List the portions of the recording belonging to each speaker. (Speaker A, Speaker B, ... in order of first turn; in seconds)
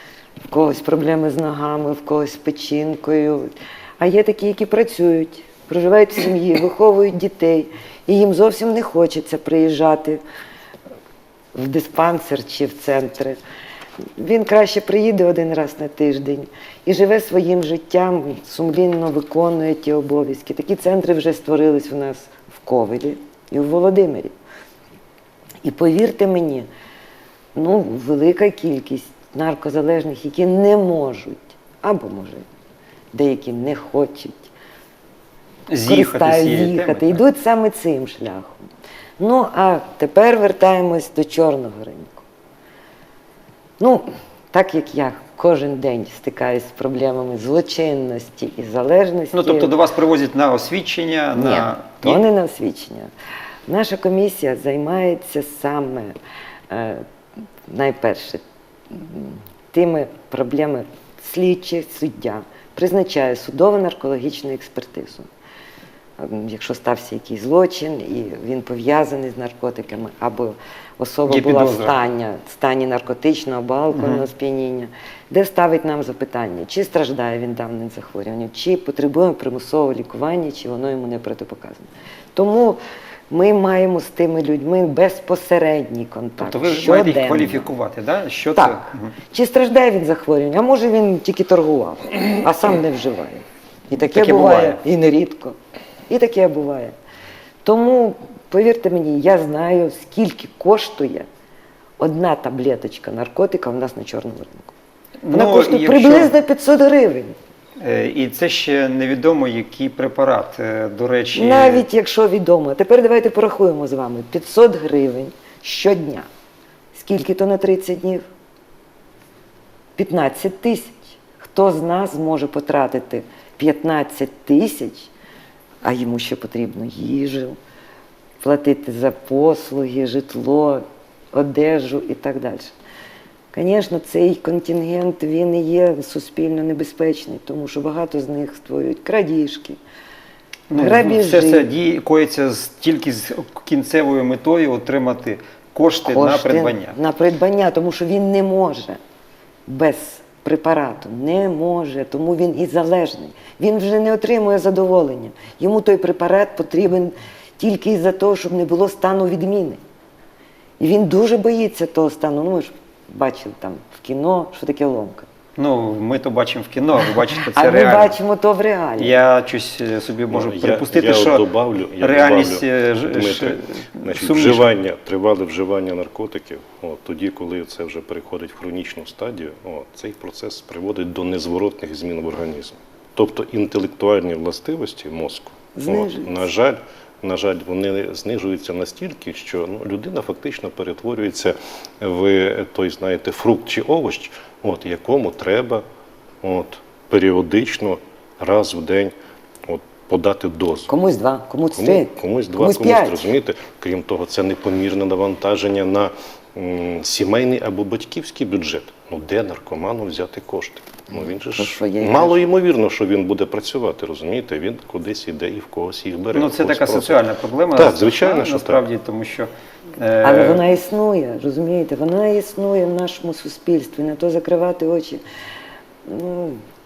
Speaker A: 0.5-10.2, 11.5-13.4, 14.2-24.3, 25.6-26.7, 27.5-32.5, 33.1-34.5, 35.8-38.6, 39.2-42.2, 43.8-49.7, 51.4-53.1, 53.7-56.1, 56.7-57.0, 57.7-65.3, 66.2-87.7, 88.5-95.6, 96.1-96.9, 97.6-101.3, 102.0-104.7, 105.3-107.3, 111.3-116.3, 116.9-118.2, 120.0-125.1, 125.8-127.6, 128.4-132.7, 133.5-139.8, 140.8-141.7, 146.0-149.0, 149.7-159.8, 160.8-165.3, 167.5-169.1, 185.7-186.4, 200.9-203.3, 211.6-212.4, 220.2-225.2, 226.0-226.6
Speaker B: 35.7-37.2, 49.3-52.2, 71.3-71.9, 73.9-74.2, 86.4-89.1, 94.0-94.8, 105.2-106.3, 107.8-111.8, 140.7-146.9, 165.6-168.1, 169.0-171.4, 172.0-174.7, 216.3-220.6
Speaker C: 170.3-195.8, 196.4-199.1, 199.7-200.9, 201.7-217.2, 217.7-218.8